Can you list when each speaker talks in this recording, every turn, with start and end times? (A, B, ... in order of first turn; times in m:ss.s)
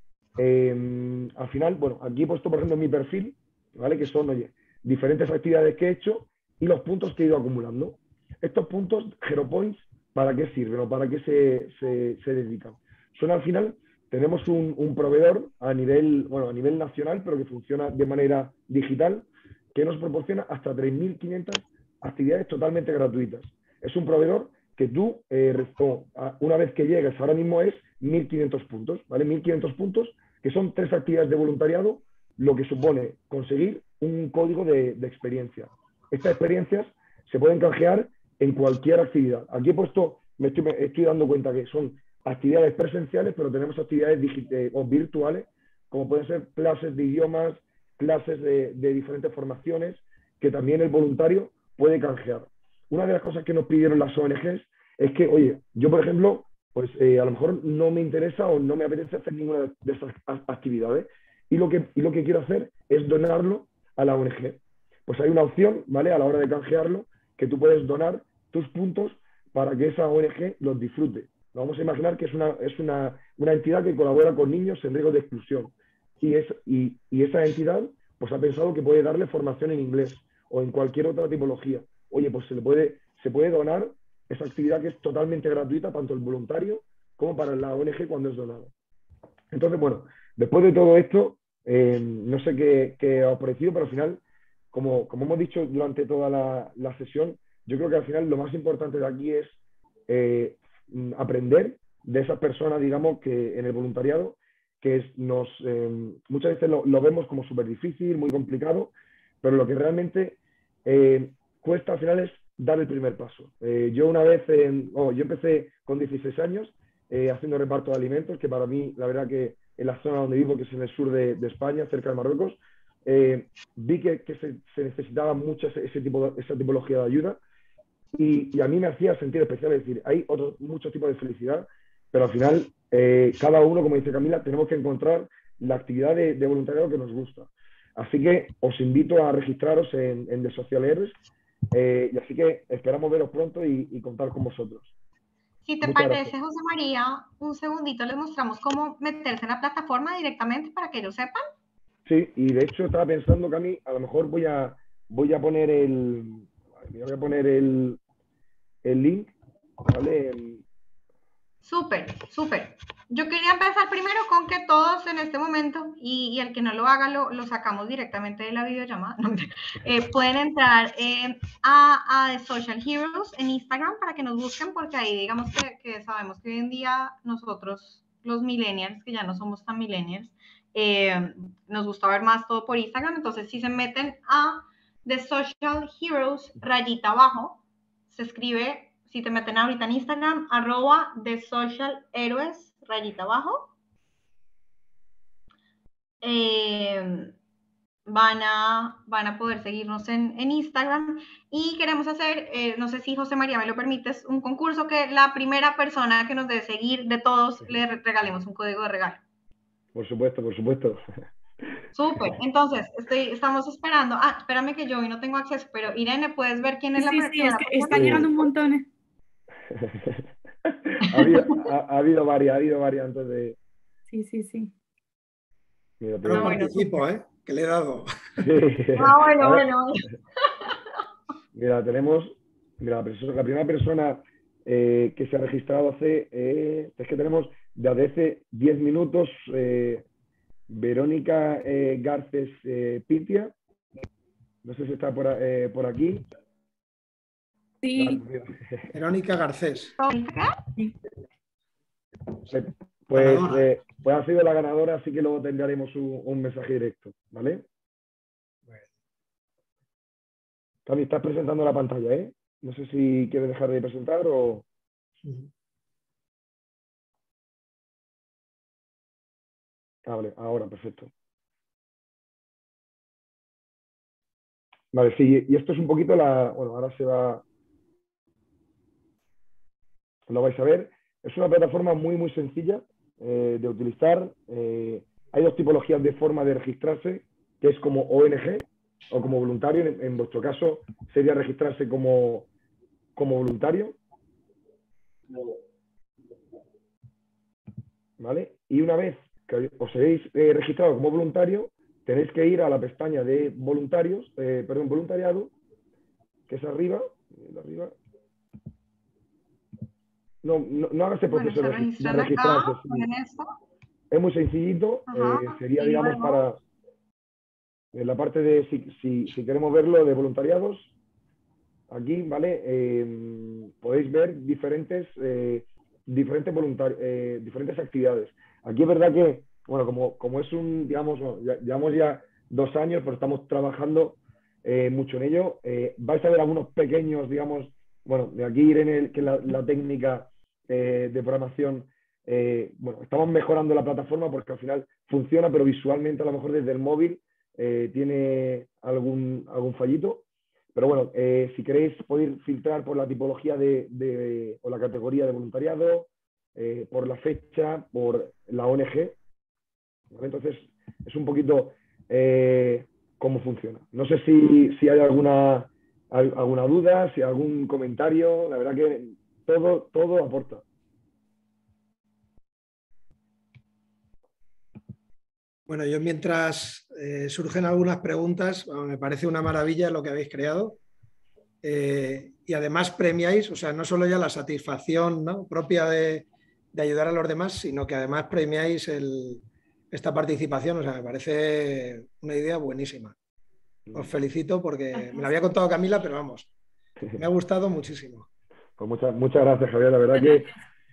0:00.4-1:28.7 A
1:29.5-1:39.6 A
1:40.1-2:07.4 A
2:08.1-2:21.2 A
2:21.7-2:24.9 A
2:25.6-2:31.4 B
2:25.8-2:26.3 A
2:32.0-2:38.0 A
2:38.8-2:40.6 A
2:41.6-3:07.6 B
3:08.1-3:13.7 B
3:16.2-3:17.3 B
3:18.0-3:29.2 B
3:29.9-3:31.0 A
3:31.9-3:38.4 B
3:37.0-3:38.9 C
3:37.9-3:38.3 A
3:39.7-3:43.6 A
3:41.1-3:41.6 B
3:44.1-3:44.7 C
3:46.0-3:46.7 A
3:46.2-3:48.4 D
3:46.3-3:47.0 B
3:48.4-3:49.6 A
3:49.0-3:50.8 B
3:51.5-4:00.0 A
4:00.7-4:03.5 A
4:04.6-4:06.2 A
4:07.8-4:08.2 C
4:08.0-4:08.9 A
4:08.9-4:10.0 D
4:10.0-4:10.6 B
4:12.5-4:17.6 A
4:13.1-4:13.7 D
4:20.8-4:24.6 A
4:25.2-4:25.5 D
4:30.0-4:31.1 A
4:34.9-4:37.4 A
4:40.3-4:52.5 A
4:53.2-4:54.0 A
4:55.3-4:55.6 A
4:58.2-5:05.5 A
5:06.5-5:08.0 A
5:10.4-5:13.1 A
5:11.3-5:13.5 B
5:14.1-5:16.6 A
5:15.1-5:16.4 B
5:17.9-5:20.9 A
5:21.9-5:50.2 A
5:50.7-5:59.2 A
6:00.1-6:10.6 A
6:15.7-6:20.8 D
6:21.6-6:33.1 D
6:33.9-6:36.5 D
6:37.2-6:38.3 D
6:38.8-6:40.5 A